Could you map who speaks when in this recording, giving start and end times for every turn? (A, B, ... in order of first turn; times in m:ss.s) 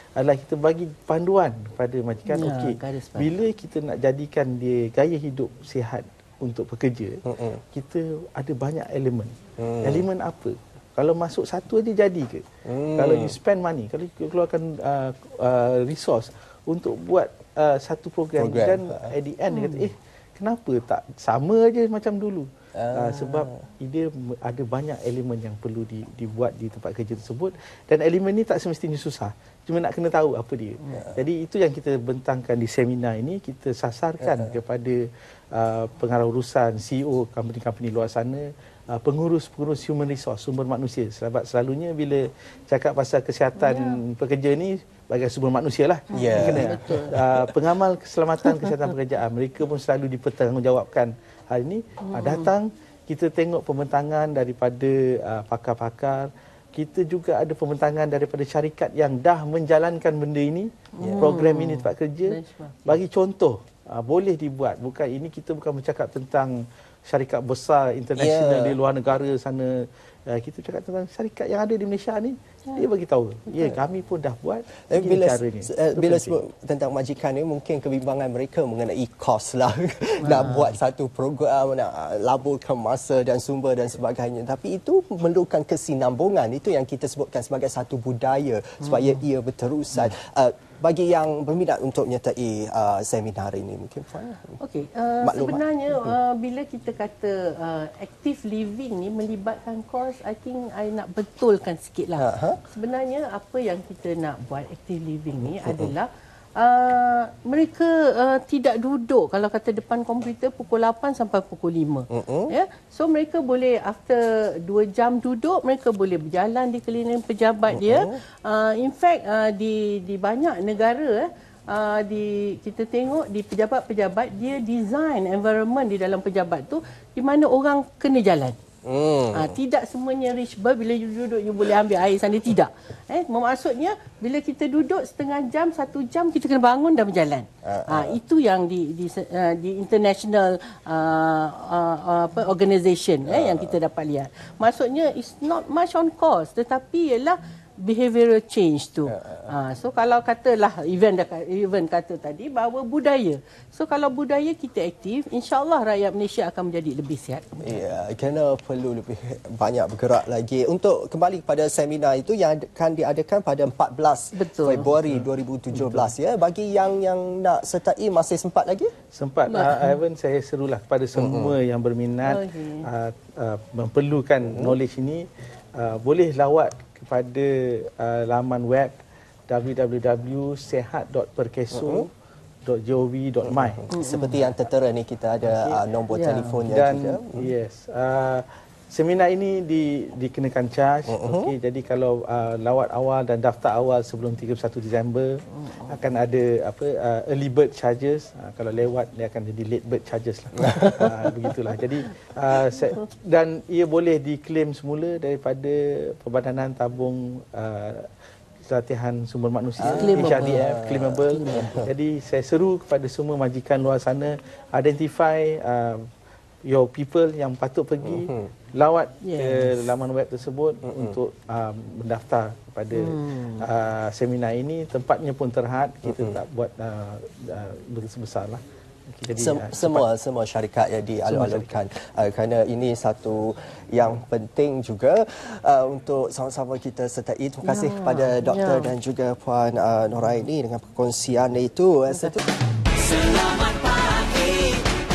0:00.2-1:16.4 A
0:02.3-0:03.3 B
0:07.3-0:07.6 C
0:09.6-0:10.0 C
0:12.6-0:13.4 C
0:18.4-0:19.1 C
0:19.5-0:19.9 B
0:22.7-0:23.6 C
0:34.2-0:34.5 C
0:43.6-0:44.0 B
0:46.1-0:47.5 C
0:46.1-0:47.2 B
0:52.0-0:52.5 B
1:01.0-1:03.0 B
1:01.0-1:01.4 C
1:08.2-1:08.8 C
1:14.9-1:34.6 C
1:20.2-1:20.8 B
1:28.8-1:29.2 B
1:34.6-2:08.6 B
1:35.2-1:36.2 C
1:42.2-1:42.6 C
1:45.4-1:45.9 C
1:52.1-1:52.5 C
1:57.7-1:58.2 C
2:08.8-2:09.6 C
2:09.3-2:37.8 B
2:17.6-2:18.2 C
2:23.3-2:23.8 C
2:29.1-2:29.5 C
2:37.6-2:48.9 C
2:44.3-2:44.9 B
2:45.1-2:46.1 A
2:49.1-2:59.0 A
2:49.5-2:50.0 B
2:51.2-2:51.6 C
2:52.2-2:52.9 B
2:54.4-2:54.8 C
2:59.5-3:02.1 A
3:01.7-3:02.1 C
3:02.6-3:03.8 A
3:03.4-3:07.5 C
3:03.9-3:04.5 B
3:05.5-3:06.6 B
3:06.6-3:28.1 A
3:11.1-3:11.5 C
3:15.6-3:16.0 B
3:20.6-3:21.1 C
3:28.6-3:36.1 A
3:29.8-3:31.9 C
3:29.9-3:30.7 B
3:31.3-3:31.8 B
3:36.7-3:48.6 A
3:38.0-3:38.5 C
3:39.2-3:39.9 B
3:40.8-3:41.2 C
3:43.0-3:43.7 B
3:46.0-3:46.4 C
3:49.1-3:50.1 A
3:49.4-4:02.4 C
3:51.3-3:51.8 A
3:57.6-3:58.9 B
4:03.0-4:04.8 B